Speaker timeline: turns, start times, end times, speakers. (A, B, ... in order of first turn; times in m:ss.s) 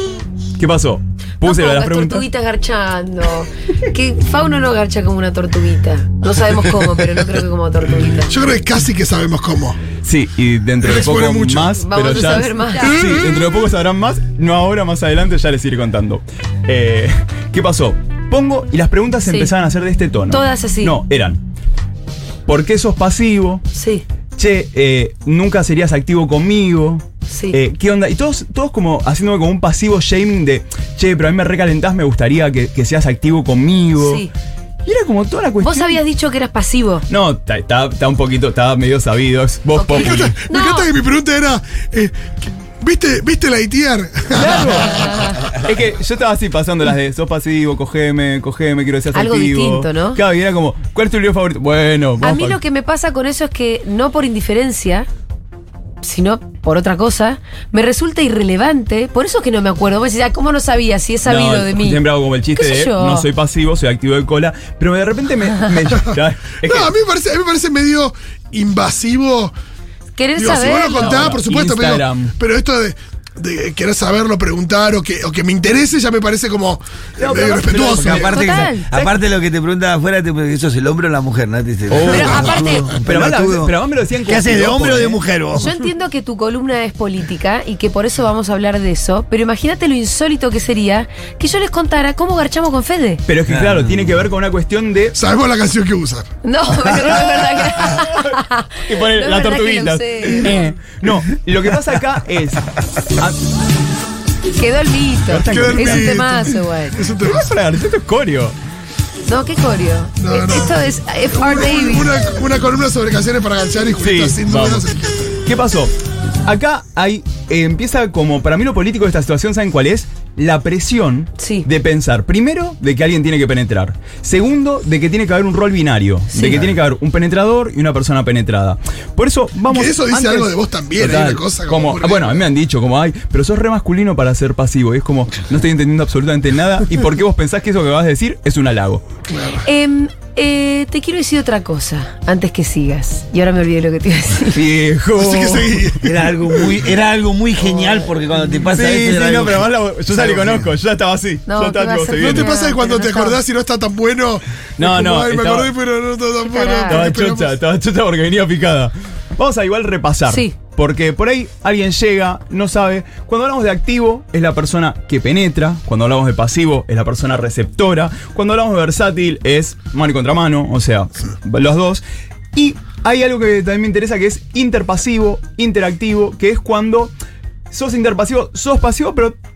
0:00.6-0:02.2 A
0:01.4-0:08.3 B
0:08.3-0:09.8 C
0:10.0-0:21.4 A
0:10.8-0:11.8 C
0:11.8-0:12.9 B
0:12.8-0:13.3 C
0:20.3-0:20.9 B
0:22.5-0:23.6 A
0:23.7-0:24.0 B
0:24.4-0:34.2 A
0:27.3-0:27.6 B
0:34.0-0:34.3 B
0:34.8-0:36.0 A
0:35.6-0:37.0 B
0:37.1-0:40.3 A
0:39.8-0:40.9 B
0:39.9-0:45.3 C
0:44.3-0:52.6 A
0:45.0-0:45.4 B
0:49.1-0:50.2 B
0:52.2-0:55.1 B
0:56.0-1:02.0 B
1:01.2-1:06.9 A
1:02.5-1:03.2 B
1:06.6-1:09.5 C
1:10.2-1:11.3 B
1:10.4-1:18.3 C
1:10.9-1:12.3 A
1:17.2-1:18.7 A
1:17.6-1:25.7 D
1:18.2-1:19.1 B
1:21.9-1:25.2 A
1:22.0-1:22.9 B
1:22.3-1:22.9 C
1:25.5-1:33.2 B
1:33.2-1:35.2 A
1:33.5-1:34.2 D
1:35.1-1:36.3 C
1:36.4-1:40.5 B
1:37.8-1:38.3 A
1:38.9-1:43.4 A
1:44.5-1:47.0 B
1:45.3-1:46.3 A
1:45.5-1:47.5 C
1:47.2-1:48.5 A
1:49.3-1:52.1 B
1:50.2-1:55.4 C
1:54.0-1:54.8 A
1:55.4-1:55.9 A
1:56.4-2:19.0 A
2:01.4-2:01.6 B
2:06.3-2:06.6 B
2:09.7-2:12.4 C
2:19.3-2:19.6 C
2:19.6-2:24.6 B
2:24.5-2:26.0 A
2:25.2-2:26.1 C
2:26.0-2:30.7 D
2:28.7-2:32.5 A
2:31.5-2:33.4 B
2:32.2-2:37.5 C
2:34.8-2:35.7 A
2:36.4-2:37.1 B
2:36.9-2:52.0 A
2:40.3-2:40.5 B
2:52.5-2:57.1 A
2:57.7-2:59.3 A